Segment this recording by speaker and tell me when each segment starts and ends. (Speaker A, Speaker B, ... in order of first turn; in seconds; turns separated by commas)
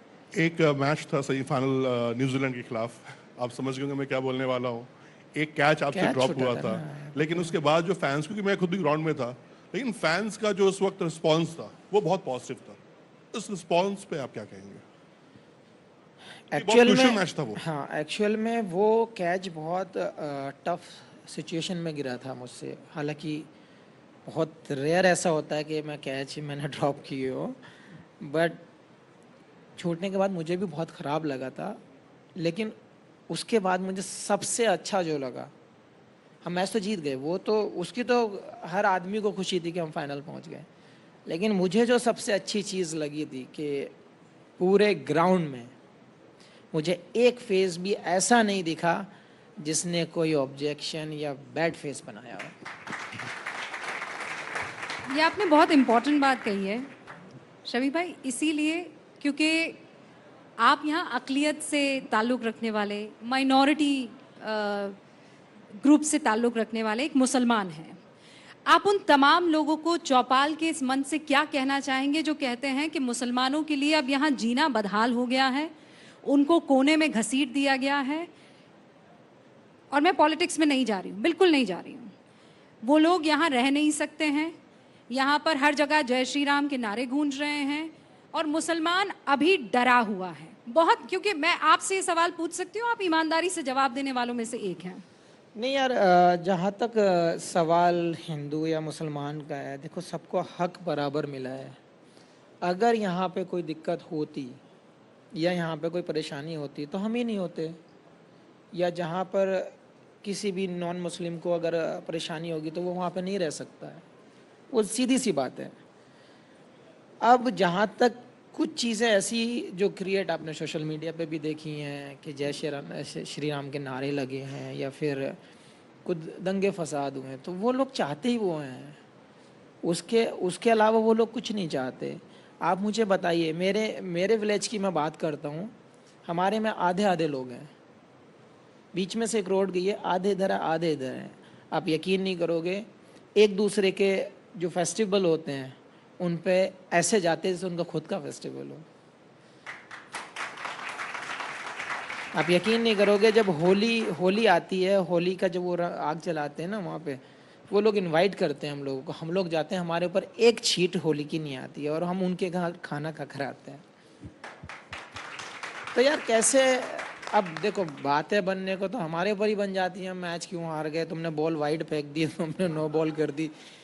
Speaker A: 0.3-12.8, Speaker B: 5.9-7.5, Speaker A: 13.3-14.8, Speaker B: 16.5-23.5, Speaker A: 16.5-17.6, Speaker B: 24.3-27.6, Speaker B: 28.2-28.6, Speaker B: 29.8-31.8, Speaker B: 32.4-32.8, Speaker B: 33.3-35.5, Speaker B: 36.4-40.7, Speaker B: 41.3-43.9, Speaker B: 44.6-45.7, Speaker B: 46.7-52.6, Speaker C: 55.1-56.9, Speaker C: 57.7-59.8, Speaker C: 60.6-65.0, Speaker C: 65.8-68.0, Speaker C: 68.7-75.7, Speaker C: 76.2-78.3, Speaker C: 79.9-82.1, Speaker C: 82.8-84.5, Speaker C: 85.1-95.0, Speaker B: 95.5-101.8, Speaker B: 102.6-104.6, Speaker B: 105.3-107.8, Speaker B: 108.7-114.0, Speaker B: 114.7-115.8, Speaker B: 117.2-125.4, Speaker B: 126.0-129.0, Speaker B: 129.8-135.7, Speaker B: 136.2-137.7, Speaker B: 138.9-148.9, Speaker B: 152.3-163.8, Speaker B: 165.9-173.5